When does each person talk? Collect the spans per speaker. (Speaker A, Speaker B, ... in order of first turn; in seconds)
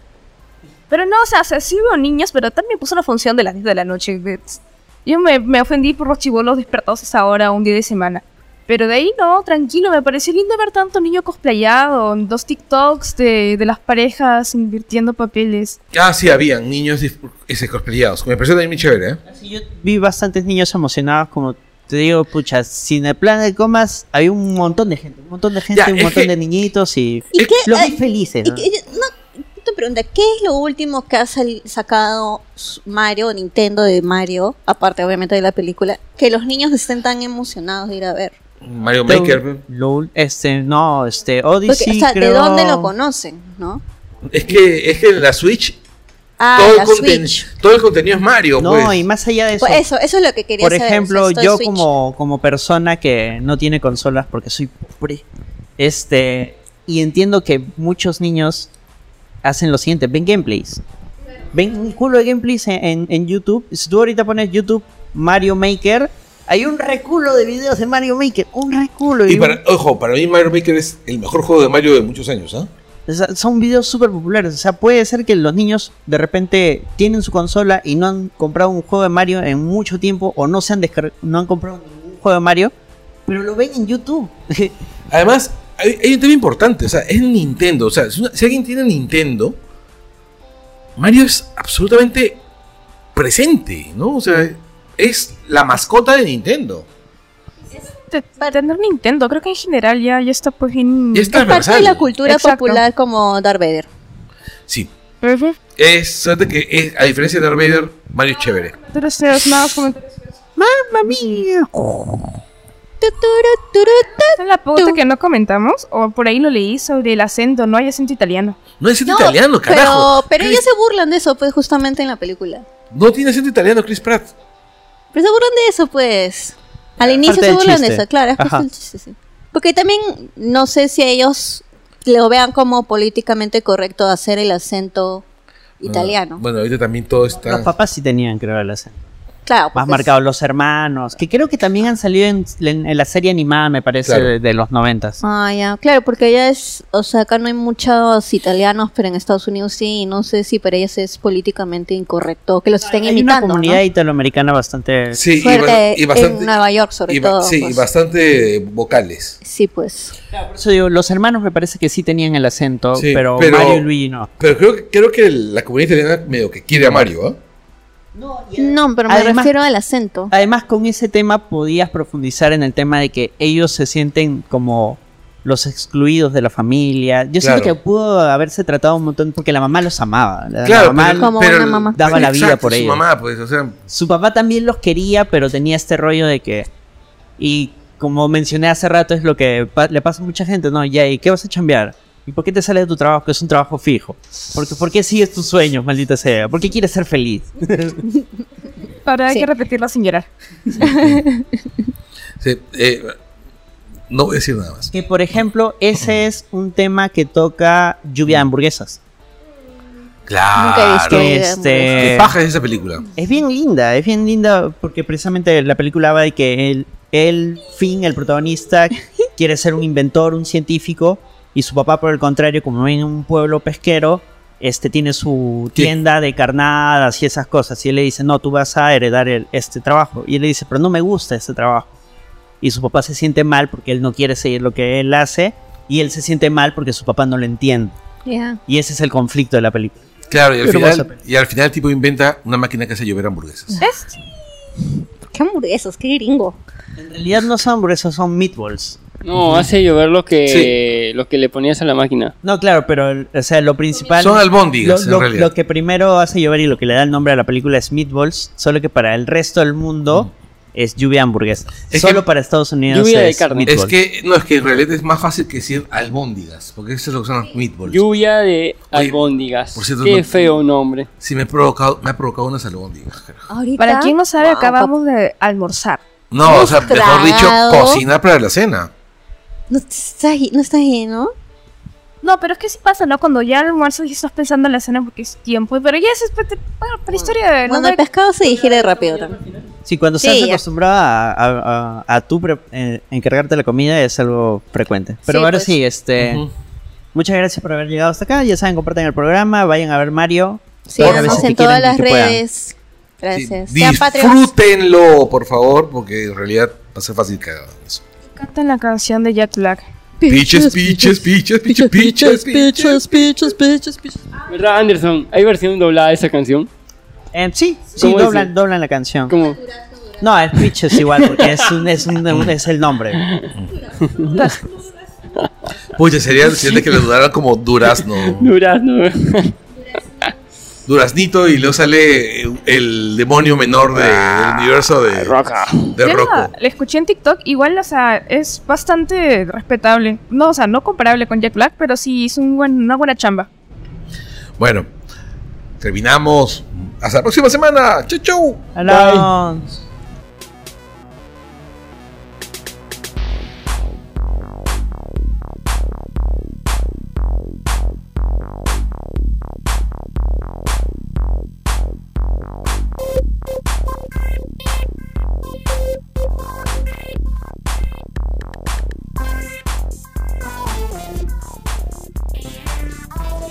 Speaker A: 0.9-15.8, 97.8-101.5, 102.2-102.8, 105.2-105.5, 108.9-110.3, 114.4-118.6, 199.0-200.3, 243.8-244.1, 273.8-276.0, 282.2-288.0, 308.3-309.8, 324.2-324.6, 336.0-343.5
Speaker B: 15.9-19.2, 25.7-26.3, 38.6-39.6, 44.3-45.8, 46.5-49.0, 69.2-72.7, 85.1-89.6, 91.0-92.4, 93.1-96.9, 101.1-102.1, 105.8-108.8, 118.8-120.6, 122.9-124.3, 135.8-137.7, 155.1-156.5, 157.1-159.4, 162.9-163.8, 164.4-167.4, 177.4-177.7, 180.6-183.8, 200.8-201.2, 202.4-203.2, 204.1-204.9, 210.3-211.4, 211.9-213.1, 240.3-243.8, 250.5-250.7, 254.1-255.5, 261.9-262.2, 263.6-268.0, 269.7-270.4, 271.2-273.5, 276.3-278.9, 296.2-296.5, 301.0-301.5, 303.3-308.0, 310.3-313.2, 325.9-328.5, 330.9-335.4, 335.9-336.5, 344.6-344.9, 345.8-348.6
Speaker C: 19.3-28.6, 39.0-42.9, 48.6-49.8, 50.6-55.2, 55.8-58.7, 59.4-60.8, 61.5-69.6, 73.0-82.7, 83.3-84.8, 110.6-112.3, 127.0-128.6, 137.3-139.0, 139.7-145.2, 152.8-155.2, 160.3-164.3, 166.8-167.0, 168.1-169.5, 170.3-181.3, 181.9-183.0, 183.9-186.7, 187.4-198.0, 204.9-209.0, 211.1-212.3, 213.2-231.9, 232.6-237.9, 238.7-240.0, 240.6-241.1, 247.0-249.0, 252.4-263.9, 289.8-296.4, 297.1-302.4, 311.8-314.3, 317.3-319.4, 320.2-323.2, 348.7-349.8
Speaker D: 27.3-38.3, 41.7-43.8, 46.4-47.5, 49.6-51.9, 101.3-103.9, 113.0-115.0, 119.0-122.6, 125.1-135.2, 135.8-136.4, 139.4-140.1, 145.2-153.8, 155.4-157.8, 159.4-160.2, 168.6-170.3, 181.1-182.3, 200.8-201.5, 210.5-212.3, 238.2-238.6, 245.3-246.6, 273.5-274.9, 276.4-278.0, 279.7-281.3, 287.1-289.4, 290.2-290.6, 295.3-295.7, 300.9-304.5, 310.2-312.0
Speaker E: 249.2-252.3, 262.9-263.7, 267.9-271.1, 288.4-289.6, 314.5-316.7, 317.9-318.5, 319.3-319.6, 320.9-321.5, 323.2-323.5, 324.1-324.4, 328.2-329.6, 334.0-335.9, 348.8-349.3